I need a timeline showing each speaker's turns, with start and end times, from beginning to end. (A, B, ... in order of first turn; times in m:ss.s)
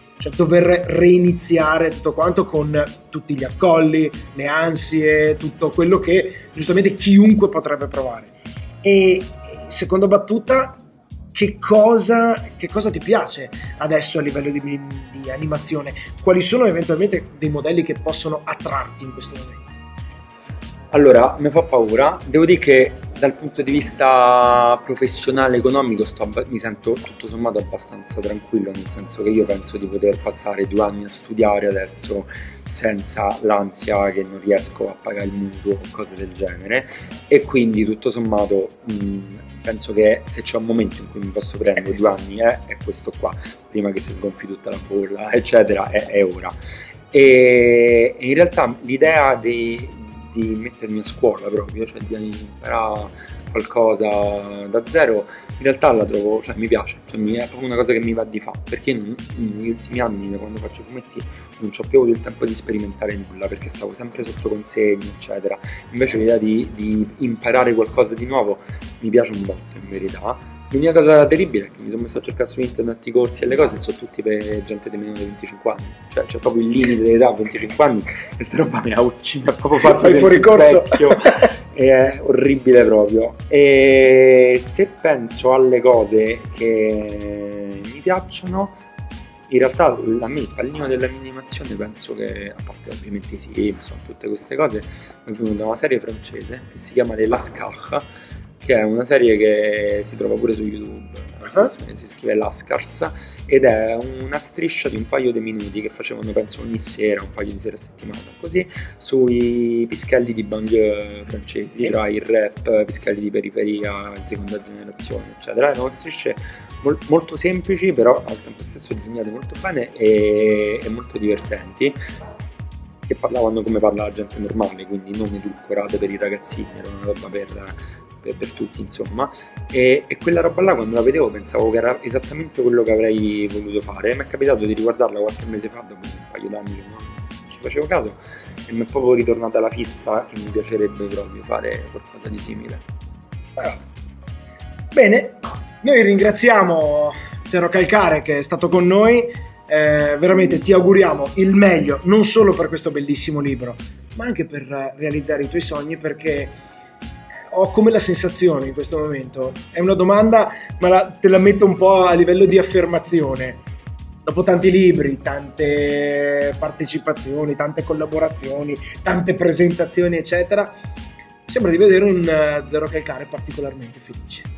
0:00.2-0:10.8 A
0:11.3-0:19.8 A
0:20.9-0:46.5 B
0:41.7-0:42.1 A
0:47.1-1:28.8 B
1:19.8-1:21.5 A
1:29.5-2:02.0 B
1:41.4-1:41.7 A
2:03.0-2:22.8 B
2:23.6-2:23.8 A
2:24.9-2:36.6 A
2:37.5-2:43.6 A
2:44.2-2:50.7 A
2:51.5-2:54.5 A